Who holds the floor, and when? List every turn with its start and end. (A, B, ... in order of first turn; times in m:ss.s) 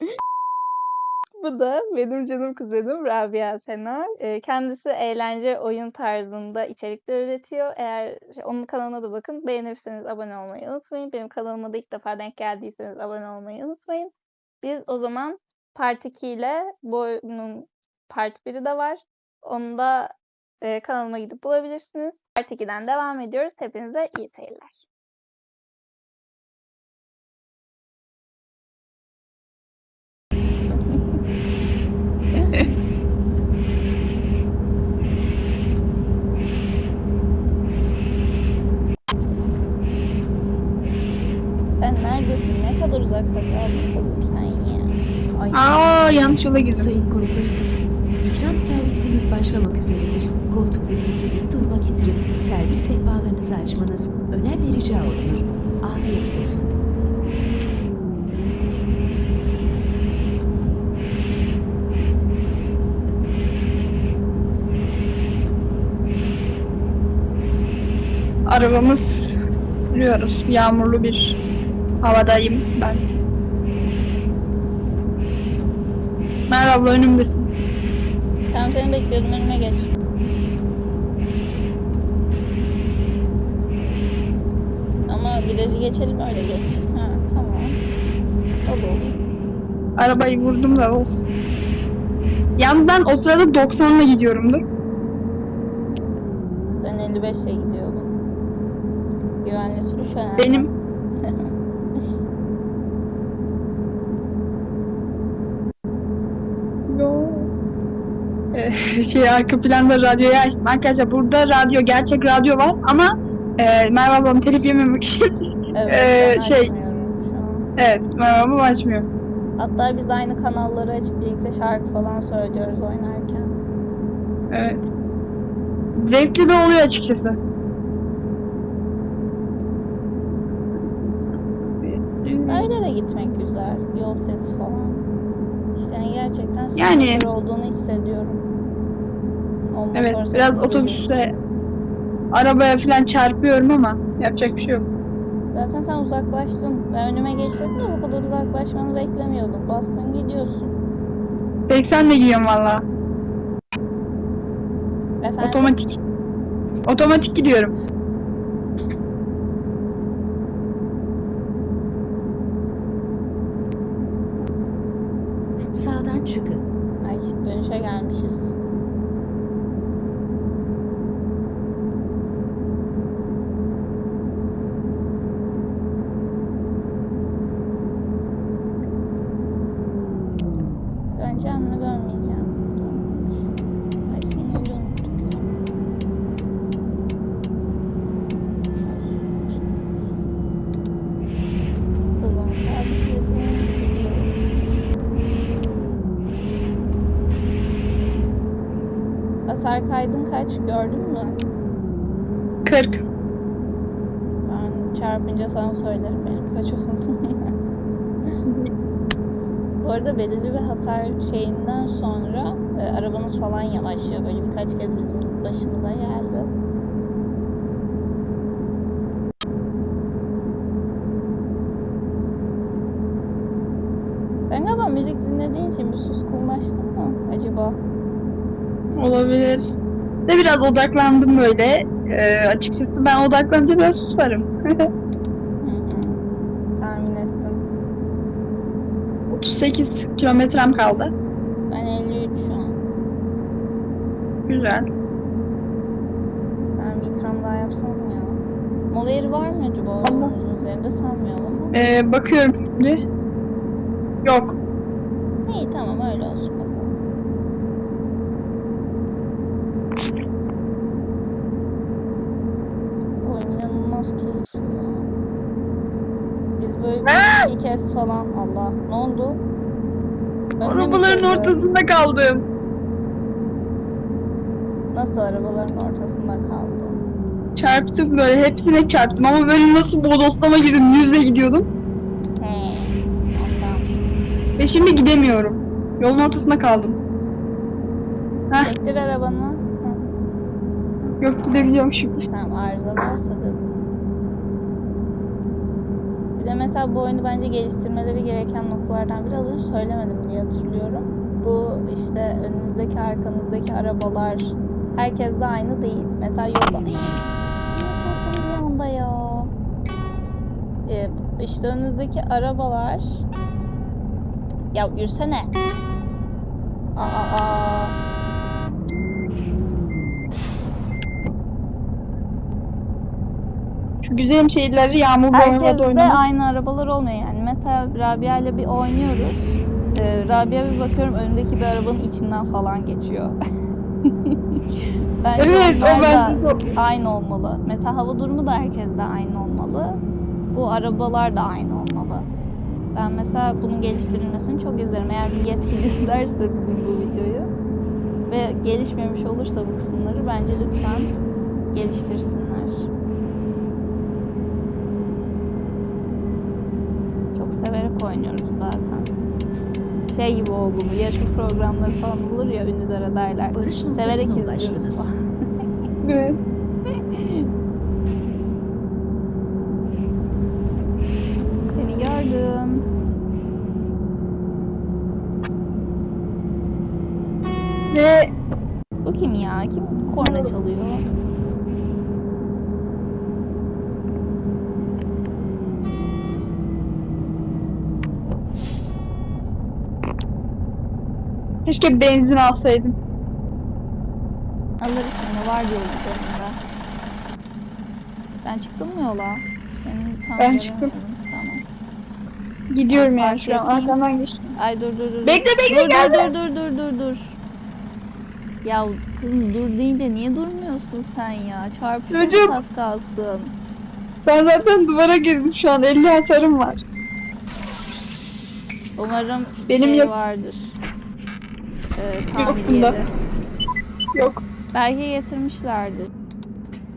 0:01.4-0:24.8 A
0:41.8-0:45.7 A
0:45.5-0:46.9 B
0:46.7-0:56.8 C
1:08.5-1:09.4 B
1:09.9-1:11.4 B
1:12.0-1:13.0 B
1:16.5-1:17.5 B
1:18.5-1:19.9 A
1:25.1-1:27.8 A
1:28.6-1:29.2 A
1:30.0-1:31.2 B
1:32.6-1:34.6 B
1:36.8-1:38.1 A
1:39.4-1:40.7 A
1:40.4-1:40.7 B
1:41.2-1:42.0 A
1:46.9-1:47.5 B
1:48.5-1:55.2 B
1:55.7-1:57.7 A
1:55.9-1:56.7 B
1:57.8-1:59.1 B
1:59.6-2:03.6 A
2:04.5-2:04.9 B
2:06.0-2:07.4 B
2:11.6-2:12.7 B
2:12.5-2:15.0 A
2:15.7-2:18.4 A
2:16.8-2:17.2 B
2:19.7-2:21.1 A
2:19.9-2:21.3 B
2:22.3-2:24.8 B
2:25.5-2:30.7 A
2:31.7-2:32.8 B
2:35.2-2:35.7 A
2:35.4-2:36.0 B
2:36.9-2:37.7 B
2:45.7-2:46.7 C
2:47.0-2:48.6 A
3:01.2-3:03.5 A
3:04.1-3:05.5 A
3:08.8-3:09.3 A
3:12.2-3:14.3 A
3:19.5-3:21.4 A
3:22.6-3:23.0 B
3:24.4-3:27.5 A
3:29.8-3:36.5 A
3:44.5-3:47.8 A
3:48.9-3:54.8 B
3:55.6-3:56.2 A
3:56.8-3:57.6 A
3:59.3-4:01.1 B
4:01.7-4:02.8 A
4:04.5-4:04.8 B
4:06.8-4:08.4 A
4:08.9-4:11.8 A
4:10.0-4:10.3 B
4:11.7-4:13.0 B
4:14.2-4:14.6 B
4:15.4-4:17.0 A
4:23.2-4:25.1 A
4:26.6-4:29.4 A
4:27.0-4:27.5 B
4:30.6-4:31.6 A
4:30.6-4:32.4 B
4:34.9-4:37.0 A
4:37.6-4:41.7 B
4:42.4-4:43.9 A
4:44.6-4:47.0 B
4:48.6-4:50.0 A
4:51.2-4:52.2 B
4:52.3-4:53.7 A
4:56.4-5:07.2 A
5:07.7-5:09.5 A
5:10.8-5:13.2 A
5:14.7-5:15.5 A
5:17.0-5:17.9 A
5:24.0-5:26.2 B
5:25.3-5:33.4 A
5:34.1-5:34.6 A
5:35.2-5:40.0 A
5:35.4-5:36.7 B
5:40.5-5:42.3 A
5:42.9-5:47.5 A
5:48.3-5:51.1 A
5:51.7-5:52.9 A
5:57.3-5:59.1 A
6:00.1-6:05.2 A
6:03.5-6:05.1 C
6:06.0-6:06.4 B
6:07.1-6:07.4 A
6:11.8-6:12.8 A
6:17.9-6:18.3 B
6:19.0-6:21.0 A
6:20.2-6:20.5 B
6:31.6-6:32.9 B
6:34.8-6:36.6 A
6:38.4-6:41.6 A
6:40.4-6:40.9 B
6:42.7-6:44.5 B
6:42.9-6:44.0 A
6:44.6-6:47.4 A
6:45.2-6:46.3 B
6:48.6-6:53.5 A
6:52.1-6:52.6 B
6:54.2-6:56.8 B
6:59.0-7:00.8 A
6:59.7-7:00.1 B
7:02.0-7:03.1 A
7:02.4-7:03.0 B
7:04.1-7:04.4 B
7:04.7-7:06.1 A